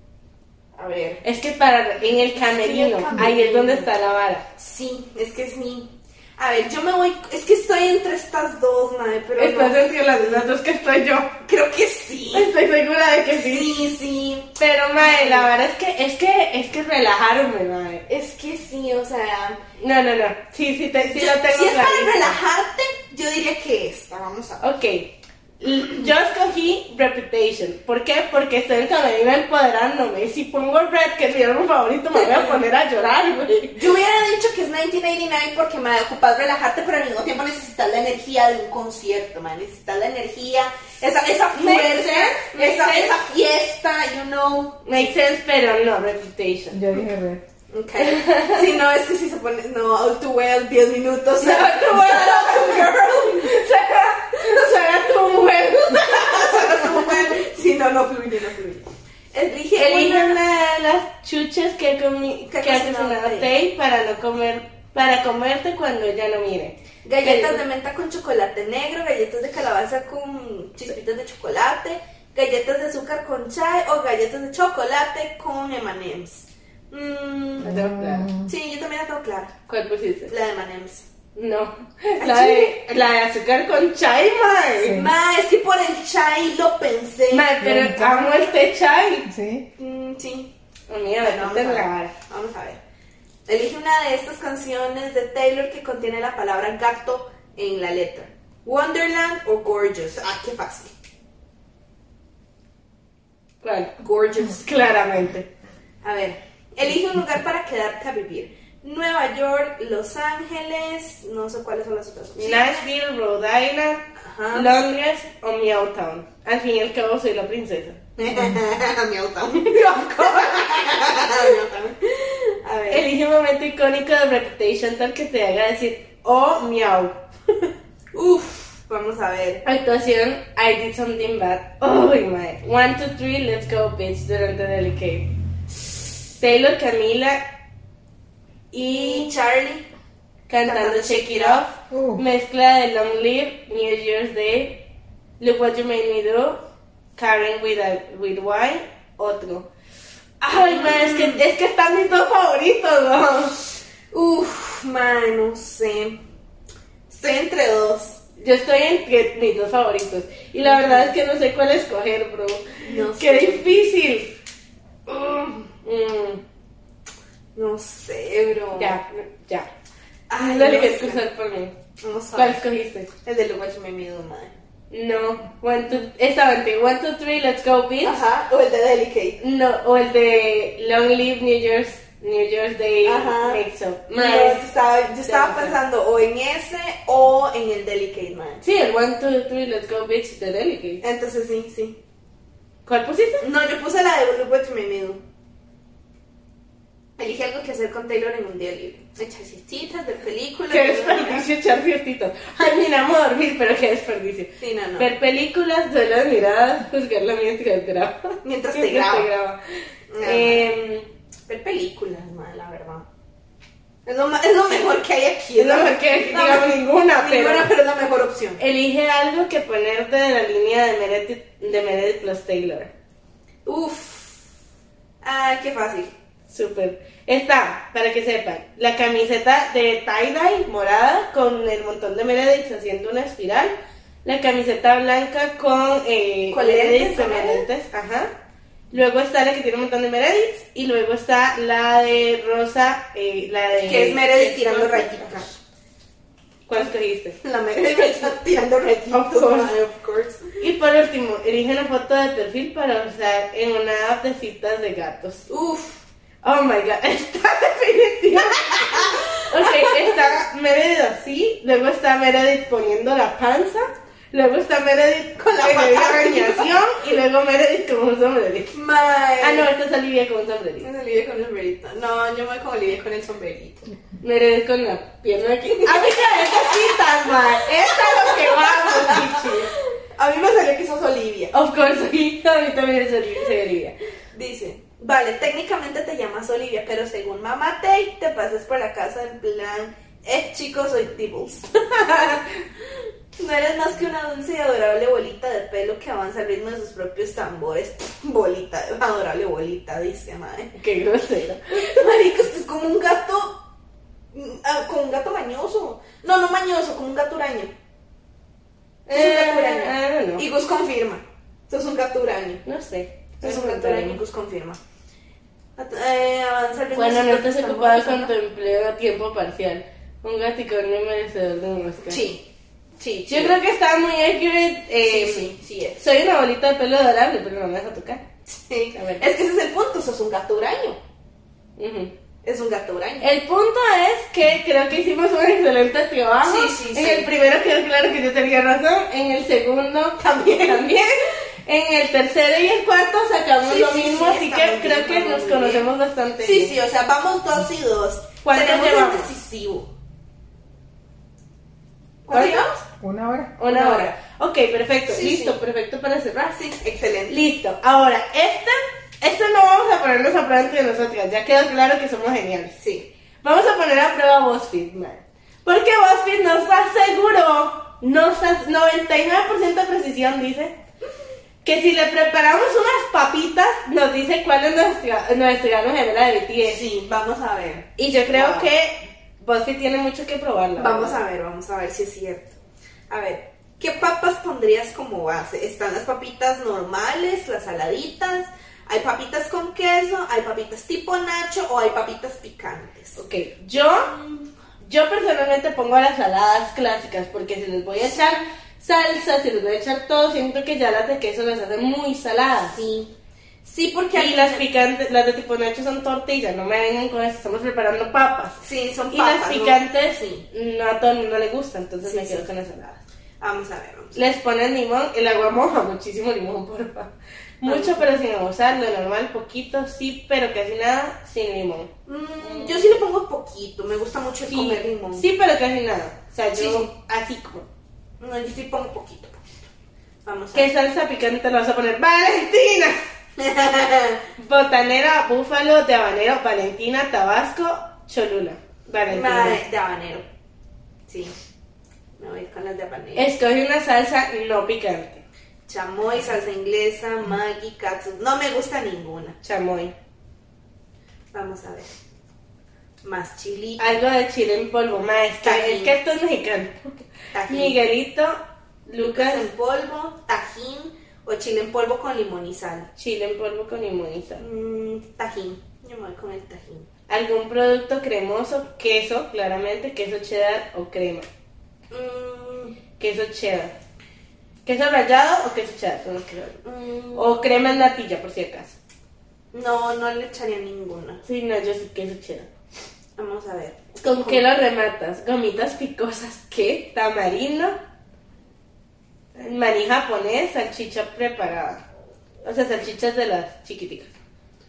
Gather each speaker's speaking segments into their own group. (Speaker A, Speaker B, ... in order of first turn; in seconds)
Speaker A: 0.8-1.2, 2.4-3.9, 4.5-10.5, 11.4-12.5, 13.3-15.5, 18.1-19.6, 21.1-24.6, 33.7-45.1, 47.7-53.6, 54.5-54.8, 55.9-60.4, 62.5-63.5, 67.0-77.7, 78.5-79.5, 80.3-81.0, 82.2-82.8, 84.9-87.5, 89.8-90.5, 91.2-92.8, 93.5-100.9, 104.0-104.6, 106.0-112.8, 114.2-114.7, 118.2-123.0, 128.1-129.6, 138.8-139.8, 140.6-141.6, 150.5-151.4, 154.1-156.2, 157.1-158.2, 160.6-161.1, 162.8-163.7, 167.5-169.0, 170.3-171.2, 172.0-172.6, 173.2-174.5, 178.0-179.4, 183.0-183.6, 184.1-188.6, 191.0-192.0, 193.4-195.2, 197.2-201.4, 204.6-205.1, 208.4-209.3, 210.1-210.7, 211.5-213.1, 214.1-218.6, 223.7-224.4, 225.2-226.1, 236.5-237.7, 243.8-245.6, 247.4-250.6, 255.5-256.0, 258.5-260.3, 265.4-266.8, 268.7-269.7, 270.8-273.8, 275.8-281.5, 284.3-292.4, 293.4-300.7, 301.8-303.6, 304.3-307.7, 309.1-312.6, 313.4-314.8, 315.8-318.3, 322.1-322.4, 323.0-323.5, 325.0-326.0, 328.5-331.0, 332.4-333.2, 336.4-337.3, 340.2-341.1, 343.6-345.9, 346.4-349.9, 352.2-352.8, 353.7-354.1, 355.1-355.6, 356.5-357.3, 362.8-363.1, 376.6-378.7, 380.8-382.5, 383.1-393.2, 393.8-394.5, 402.7-403.1, 403.6-404.6, 408.6-410.4, 412.0-412.4, 413.4-414.2, 417.6-418.0, 422.1-425.2, 426.6-426.9, 428.2-429.4, 430.2-430.7, 433.4-434.2, 439.1-440.2, 441.1-441.3, 442.2-443.3, 445.7-449.4, 451.3-451.9, 453.0-454.0, 455.4-455.9, 457.3-457.8, 459.0-462.9, 464.4-466.9, 471.9-472.8, 476.6-477.3, 479.5-481.2, 483.2-484.4
Speaker B: 1.2-4.4, 9.4-11.3, 12.3-13.7, 14.6-18.1, 19.8-22.4, 24.6-33.8, 41.5-43.2, 44.8-46.8, 48.0-48.7, 51.4-57.2, 59.8-67.6, 77.6-78.3, 79.7-80.3, 81.3-85.0, 87.3-89.3, 90.9-92.1, 103.6-103.9, 104.5-105.5, 112.4-118.0, 122.9-127.2, 129.6-135.3, 136.2-137.4, 138.7-139.3, 140.5-144.8, 145.4-146.6, 147.2-149.7, 150.4-153.6, 158.4-164.3, 165.1-166.4, 168.7-169.7, 170.3-171.7, 172.3-173.1, 174.9-178.2, 179.4-184.7, 185.2-185.8, 188.6-191.0, 192.8-193.4, 200.7-209.6, 210.2-211.1, 215.6-217.7, 218.6-222.9, 226.5-238.3, 238.9-245.3, 246.7-248.3, 249.1-249.7, 250.6-255.4, 256.4-268.7, 269.4-270.9, 274.2-279.7, 281.5-283.9, 300.7-301.6, 309.1-310.4, 312.6-314.2, 316.9-322.2, 323.3-325.5, 326.0-328.2, 328.9-329.2, 331.8-332.1, 333.2-346.8, 348.4-349.3, 352.3-352.7, 353.6-356.6, 357.3-362.7, 363.4-370.7, 371.6-376.8, 378.0-381.2, 393.1-394.1, 394.8-402.8, 404.1-408.6, 409.1-413.0, 414.1-422.9, 424.5-427.6, 430.5-433.0, 434.4-439.6, 443.1-445.2, 449.4-449.9, 453.8-459.4, 462.9-464.4, 467.1-471.3, 473.0-473.7, 474.6-476.6, 477.1-478.8, 481.2-482.5, 484.0-487.8, 489.4-491.8, 492.4-494.1
Speaker C: 46.7-47.4, 77.6-78.5, 84.8-85.1, 87.6-88.4, 89.3-89.6, 141.9-142.2, 353.0-353.6